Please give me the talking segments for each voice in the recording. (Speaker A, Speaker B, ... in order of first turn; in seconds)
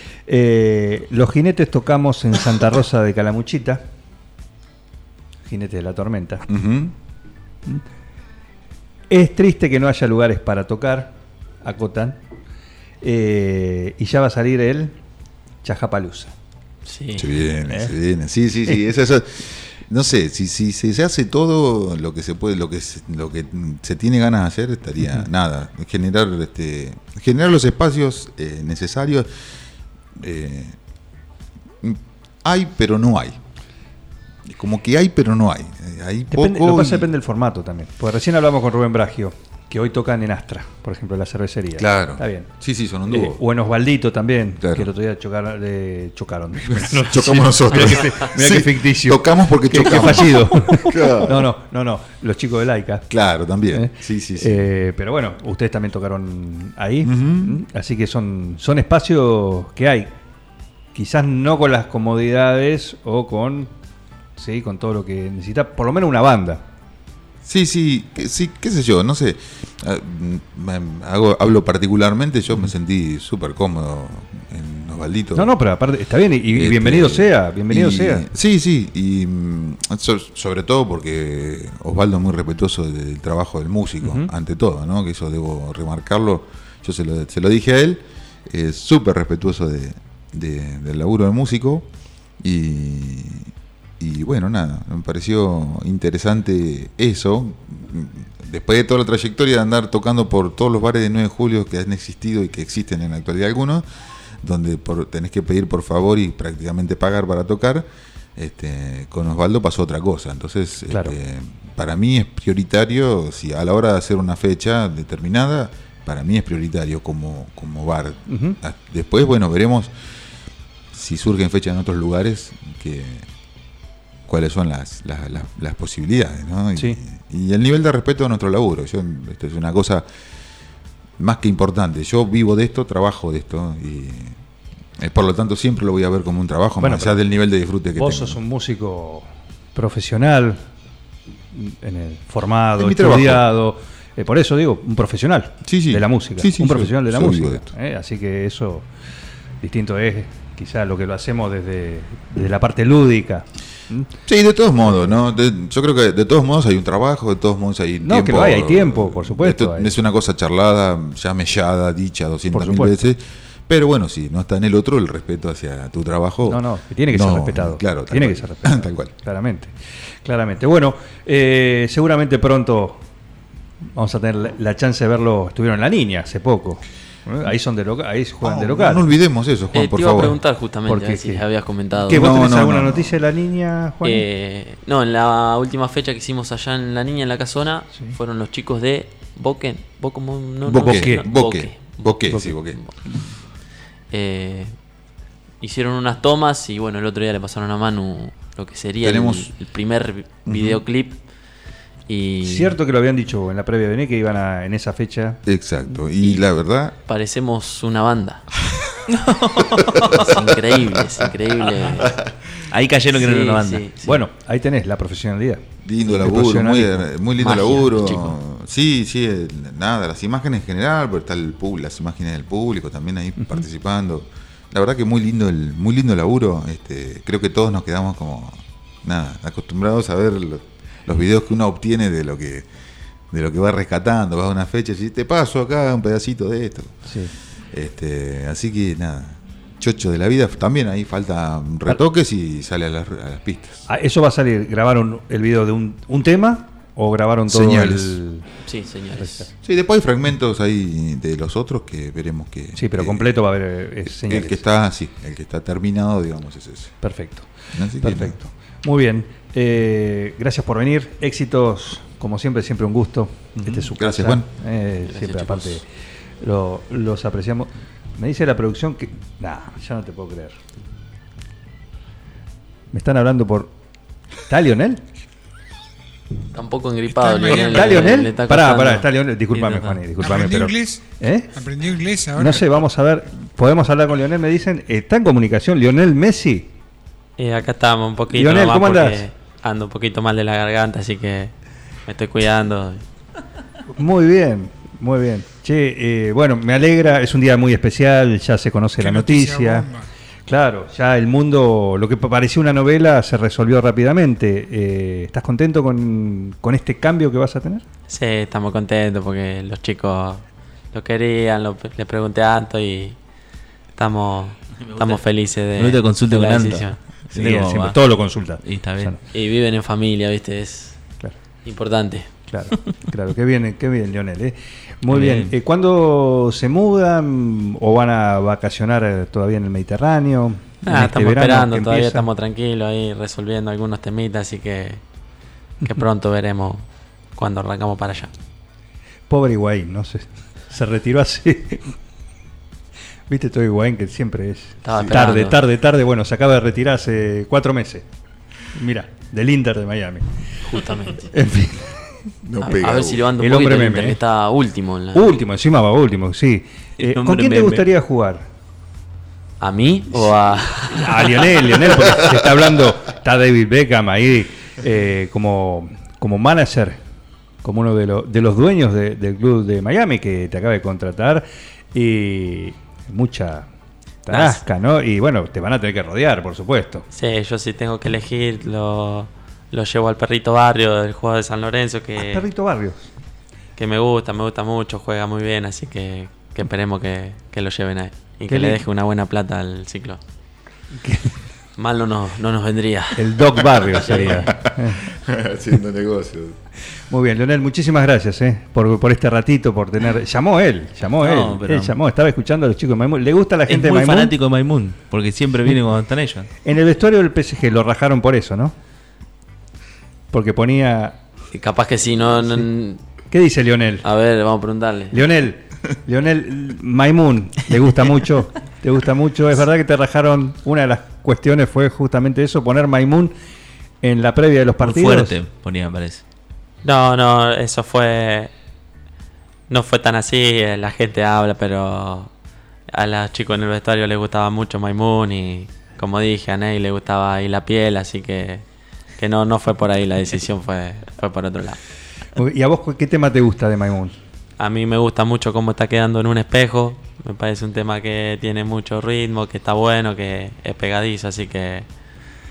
Speaker A: 0.3-3.8, 5.5-6.5, 9.1-12.2, 13.0-15.0, 15.6-16.3, 17.7-17.9, 36.3-42.5, 43.1-53.1, 53.7-60.1, 60.9-63.7, 64.4-66.6, 75.3-78.3, 84.0-84.3, 110.9-111.2, 118.3-118.6, 136.8-137.2, 138.0-140.6, 141.5-148.9, 149.6-154.1, 154.8-155.2, 158.0-159.9, 162.5-163.1, 166.5-173.0, 174.0-179.1, 180.9-181.4, 182.1-184.3, 190.8-191.2, 202.4-205.4, 214.0-217.1, 237.1-237.3, 243.9-248.5, 249.2-249.5, 252.8-254.6, 257.0-265.9, 266.4-270.6, 272.9-273.7, 274.5-275.0, 277.5-281.5, 282.4-286.7, 288.3-289.2, 293.9-299.9, 300.5-307.8, 317.3-319.2, 322.5-332.3, 339.3-341.9, 343.3-348.1, 348.7-350.3, 351.3-352.0, 353.4-354.2, 355.1-358.4, 360.9-367.0, 367.6-373.7, 374.3-377.1, 382.2-383.1, 388.5-388.8, 391.0-391.3, 393.2-395.1, 397.1-404.4, 406.6-408.8, 410.3-411.2, 413.3-414.1, 415.1-423.3, 424.0-425.4, 442.4-444.1
Speaker B: 6.5-6.9, 17.1-29.3, 30.2-30.8, 31.8-33.4, 34.5-37.1, 41.8-43.4, 44.6-44.9, 46.7-51.5, 53.1-54.7, 57.0-57.6, 67.4-75.5, 76.5-91.9, 92.4-103.9, 104.4-119.9, 120.9-123.3, 124.3-130.1, 131.2-134.4, 135.0-138.4, 142.8-143.5, 145.7-147.7, 154.3-169.1, 178.4-180.4, 182.0-183.2, 190.7-192.8, 199.0-199.5, 200.5-200.8, 205.5-207.0, 209.8-212.3, 215.8-232.7, 233.3-237.0, 237.7-243.9, 247.5-248.2, 249.6-253.4, 254.0-256.9, 257.7-258.4, 263.9-264.5, 352.4-353.3, 394.6-396.6
Speaker C: 16.9-17.4, 179.7-182.3, 184.0-192.9, 194.1-194.7, 195.6-201.2, 202.1-202.8, 207.1-208.5, 210.1-212.2, 213.1-214.0, 217.4-218.4, 248.7-249.5, 265.1-265.8, 276.5-279.1, 287.4-291.5, 292.1-293.0, 308.1-310.4, 310.9-313.2, 314.0-317.0, 319.3-321.0, 321.6-322.3, 330.9-335.0, 335.8-336.9, 337.4-338.3, 344.8-345.6, 350.6-351.3, 352.6-355.4, 359.6-361.9, 374.3-374.6, 377.1-382.5, 383.8-390.2, 391.8-394.5, 411.5-413.0, 414.0-415.2, 426.8-428.5, 429.7-432.3, 432.9-438.6, 439.2-441.8, 444.6-451.9
Speaker D: 209.1-210.2, 212.7-214.1, 279.5-280.0, 314.9-315.2, 315.8-318.0, 318.6-319.1, 325.1-325.5, 357.0-357.9, 401.2-402.0, 403.7-406.5, 424.8-426.2
Speaker E: 277.1-278.1, 280.2-282.7, 299.0-300.1